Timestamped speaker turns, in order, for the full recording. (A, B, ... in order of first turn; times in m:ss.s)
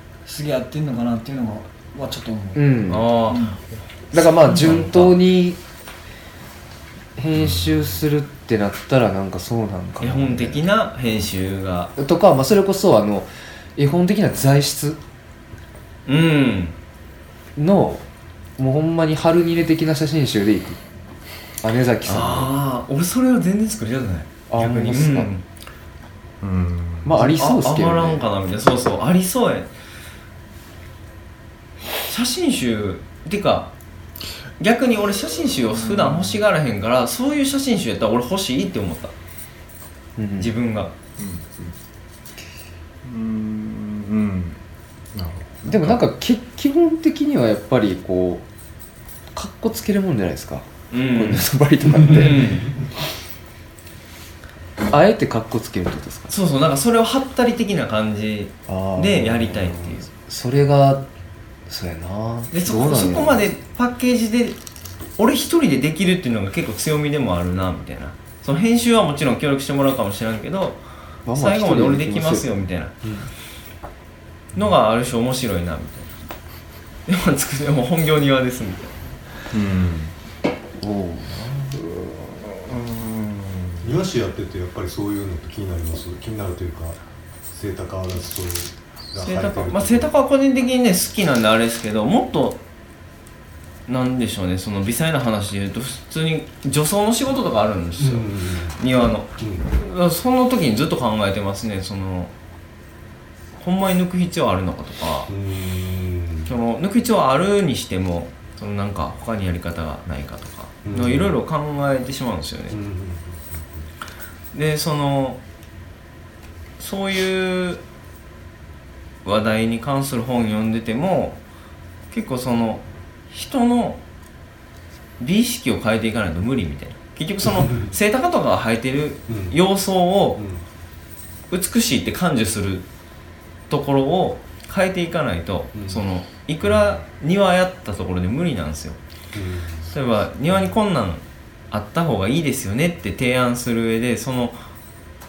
0:00.2-0:02.7 A
0:02.6-0:03.1 B
0:02.9-0:03.6 C
0:03.3-0:03.6 A
0:04.1-0:05.6 B
0:04.4-0:05.2 C
0:04.5-0:04.8 A
0:07.2-0:10.6 B
0:07.4-0:07.9 D
0:10.0-0:11.9 C
0:12.0-0:15.0 B
0:16.1-0:16.8 C
0:17.6-0:18.0 B
0:18.6-0:20.8 B
0:21.6-0:22.5 B
0:22.0-0:25.4 C
0:24.5-0:25.3 B
0:26.4-0:27.2 D
0:27.0-0:28.2 B
0:27.2-0:29.7 C
0:32.1-0:33.7 C
0:34.6-0:39.1 C
0:35.9-0:36.3 D
0:40.2-0:40.5 B
0:40.4-0:40.9 C
0:41.2-0:41.7 D
0:43.0-0:44.6 D
0:45.1-0:46.0 D
0:45.6-0:48.5 B
0:49.3-0:52.7 B
0:50.9-0:51.5 C
0:52.0-0:52.8 C
0:54.9-0:56.3 B
0:56.3-1:00.1 C
0:58.7-1:01.1 B
1:01.7-1:03.5 B
1:02.5-1:04.6 C
1:05.2-1:10.8 C
1:11.3-1:12.5 B
1:11.3-1:13.0 C
1:14.6-1:16.1 C
1:17.1-1:18.9 C
1:19.5-1:20.1 D
1:20.8-1:21.8 B
1:21.7-1:24.0 D
1:23.8-1:27.0 E
1:27.5-1:30.1 E
1:29.2-1:32.6 C
1:33.9-1:42.3 C
1:38.0-1:38.8 E
1:39.4-1:39.7 E
1:43.6-1:45.3 C
1:45.3-1:46.5 E
1:46.5-1:52.8 C
1:50.8-1:51.3 E
1:52.7-1:53.9 E
1:54.5-1:55.4 C
1:56.8-1:57.8 C
1:59.2-2:01.4 C
2:02.1-2:04.0 C
2:05.2-2:10.4 C
2:07.4-2:08.0 E
2:09.3-2:09.6 E
2:10.4-2:10.6 E
2:11.5-2:12.9 C
2:13.7-2:19.0 C
2:15.7-2:16.0 E
2:16.7-2:17.0 E
2:19.3-2:19.9 E
2:19.9-2:24.6 C